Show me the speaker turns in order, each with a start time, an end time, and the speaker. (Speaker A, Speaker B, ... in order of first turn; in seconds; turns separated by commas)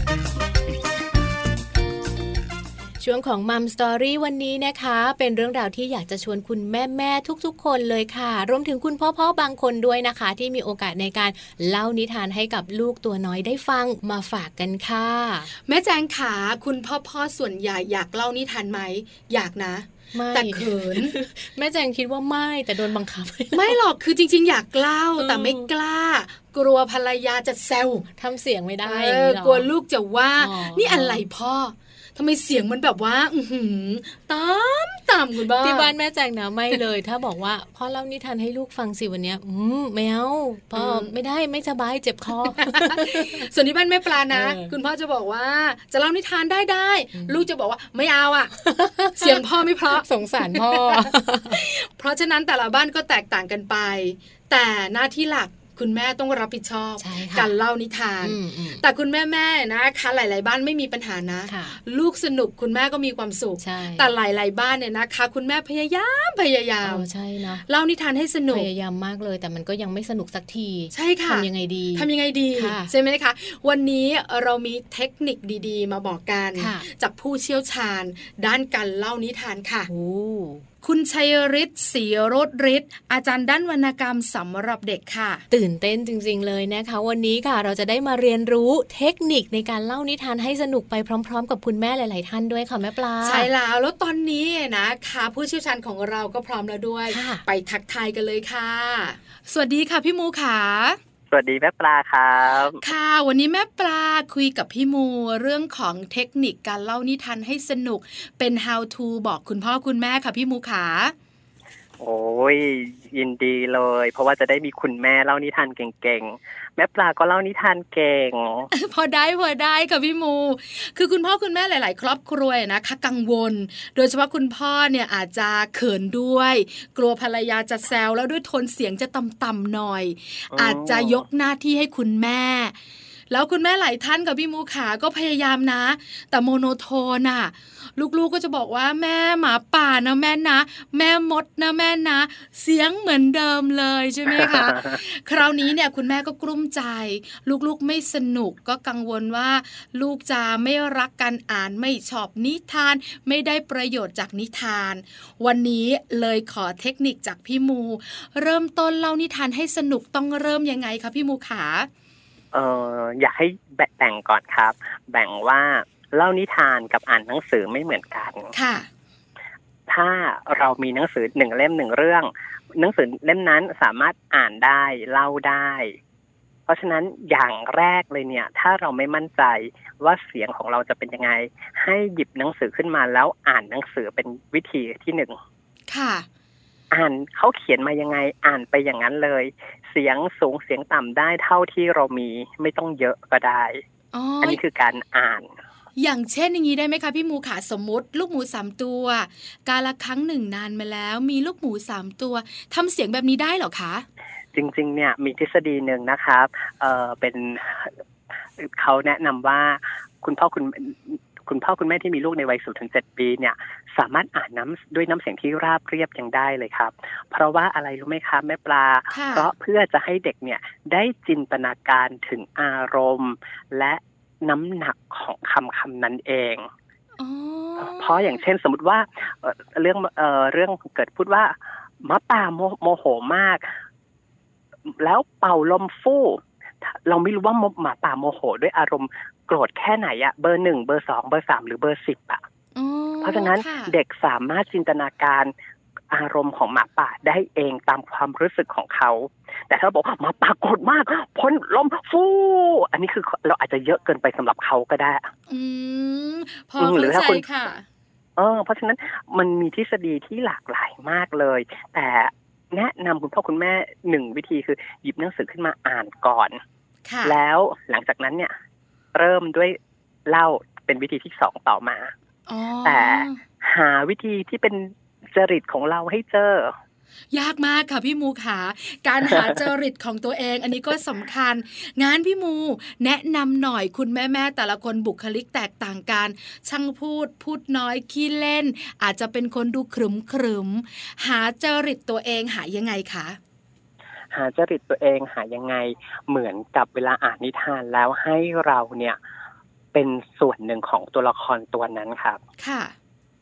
Speaker A: 3.0-15.5, Speaker B: 15.6-21.1, Speaker A: 20.1-23.8, Speaker B: 23.5-28.1, Speaker A: 25.2-25.7, Speaker A: 28.2-29.7, Speaker B: 28.8-35.9, Speaker A: 30.4-31.2, Speaker A: 35.6-43.5, Speaker B: 40.7-41.1, Speaker B: 42.6-67.1, Speaker A: 44.3-44.7, Speaker A: 47.1-47.4, Speaker A: 48.6-51.6, Speaker A: 57.0-57.5, Speaker A: 58.2-58.8, Speaker A: 61.5-61.8, Speaker A: 63.6-64.1, Speaker A: 66.8-67.6, Speaker B: 67.6-68.7, Speaker A: 68.5-72.9, Speaker B: 70.9-79.9, Speaker A: 76.5-76.8, Speaker A: 79.9-80.6, Speaker B: 80.8-85.4, Speaker A: 85.5-93.5, Speaker B: 93.2-101.0, Speaker A: 97.1-97.4, Speaker C: 101.3-102.8, Speaker B: 102.8-111.1, Speaker C: 112.0-118.7, Speaker B: 118.7-132.8, Speaker C: 130.5-131.2, Speaker B: 133.3-161.9, Speaker C: 144.4-144.9, Speaker C: 162.5-168.5, Speaker B: 168.5-168.9, Speaker C: 169.9-176.0, Speaker C: 176.7-185.4, Speaker B: 185.9-186.2, Speaker C: 186.9-193.8, Speaker B: 194.1-194.6, Speaker C: 194.4-195.5, Speaker B: 196.0-204.0, Speaker C: 204.5-207.9, Speaker C: 208.6-226.7, Speaker B: 219.1-219.5, Speaker B: 227.2-228.4, Speaker C: 227.8-233.8, Speaker C: 234.9-242.4, Speaker B: 242.8-243.9, Speaker C: 243.2-245.5, Speaker C: 246.1-255.3, Speaker B: 255.5-257.8, Speaker C: 256.8-257.4, Speaker C: 258.4-266.6, Speaker B: 267.1-267.4, Speaker C: 267.2-268.5, Speaker C: 269.1-272.1, Speaker B: 272.5-273.4, Speaker C: 272.8-276.7, Speaker B: 277.3-293.4, Speaker C: 279.2-279.6, Speaker C: 294.3-299.2, Speaker C: 299.9-302.4, Speaker B: 302.6-302.9